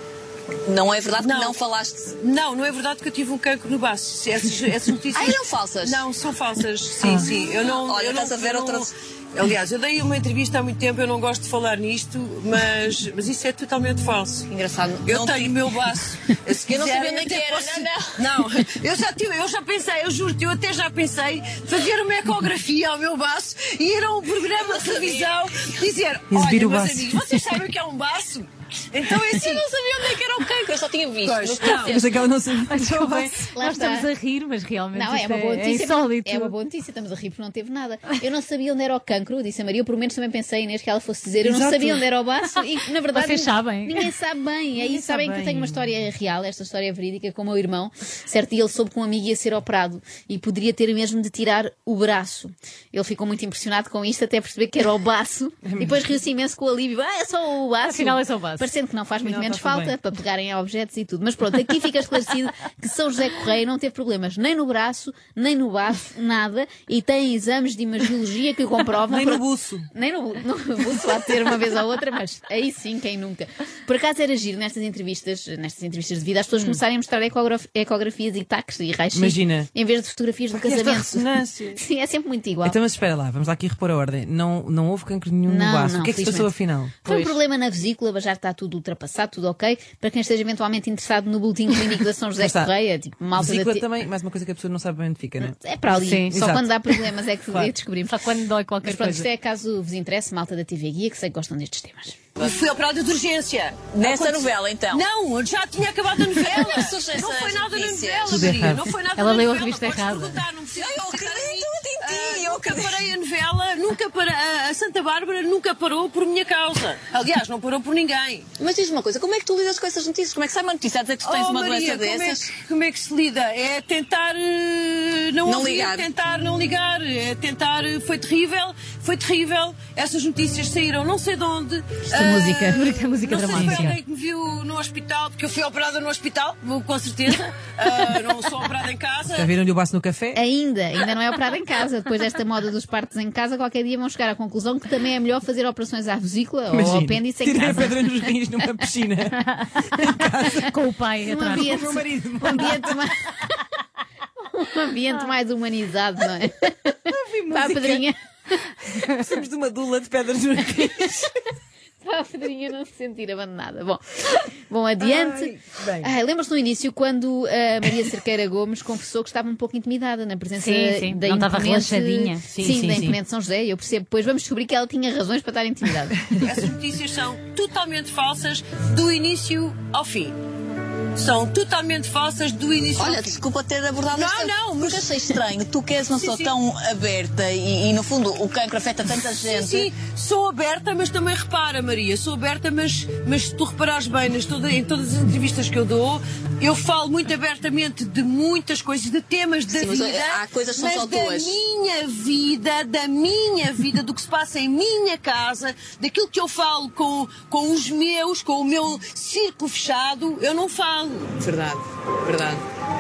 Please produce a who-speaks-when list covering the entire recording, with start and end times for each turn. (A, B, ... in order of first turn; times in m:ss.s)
0:00.6-0:02.1 A
0:01.2-0:01.6 B
0:02.2-0:14.4 B
0:05.1-0:06.0 A
0:07.2-0:08.9 A
0:14.5-0:15.6 A
0:15.1-0:32.0 B
0:16.6-0:18.3 A
0:24.5-0:25.7 A
0:26.3-0:27.5 C
0:30.5-0:32.2 A
0:31.7-0:33.4 C
0:32.7-0:36.5 D
0:33.4-0:34.1 E
0:34.9-1:22.8 E
0:41.4-0:42.0 C
0:43.1-0:44.1 D
0:44.8-0:45.7 C
0:55.6-0:56.0 C
0:57.8-0:58.7 D
0:59.2-0:59.9 C
1:09.1-1:09.9 C
1:19.1-1:19.7 C
1:20.5-1:21.8 C
1:22.6-1:26.9 C
1:25.4-1:33.9 E
1:27.1-1:27.4 D
1:32.4-1:32.7 C
1:33.4-1:35.5 C
1:35.4-1:38.1 E
1:35.9-1:36.4 D
1:36.3-1:36.8 C
1:38.0-1:39.3 D
1:38.8-1:42.2 E
1:42.4-1:58.5 B
1:43.9-1:45.0 A
1:46.3-1:48.6 A
1:48.3-1:48.9 C
1:49.2-1:50.4 D
1:50.7-1:53.0 A
1:58.6-2:02.5 A
2:01.2-2:19.5 B
2:05.4-2:06.1 A
2:12.1-2:13.0 E
2:12.7-2:14.0 D
2:19.3-2:20.4 C
2:20.3-2:28.1 E
2:26.7-2:30.8 C
2:30.6-2:31.8 D
2:31.2-2:33.6 E
2:31.4-2:33.1 C
2:34.4-2:38.2 E
2:37.1-2:38.0 C
2:38.9-2:41.3 C
2:42.0-2:56.4 E
2:45.0-2:46.1 C
2:50.6-2:53.2 D
2:56.4-3:00.4 B
3:01.1-3:03.4 B
3:02.9-3:09.9 A
3:04.1-3:05.4 B
3:06.1-3:06.5 B
3:09.4-3:31.3 B
3:19.7-3:21.6 A
3:31.4-3:32.6 A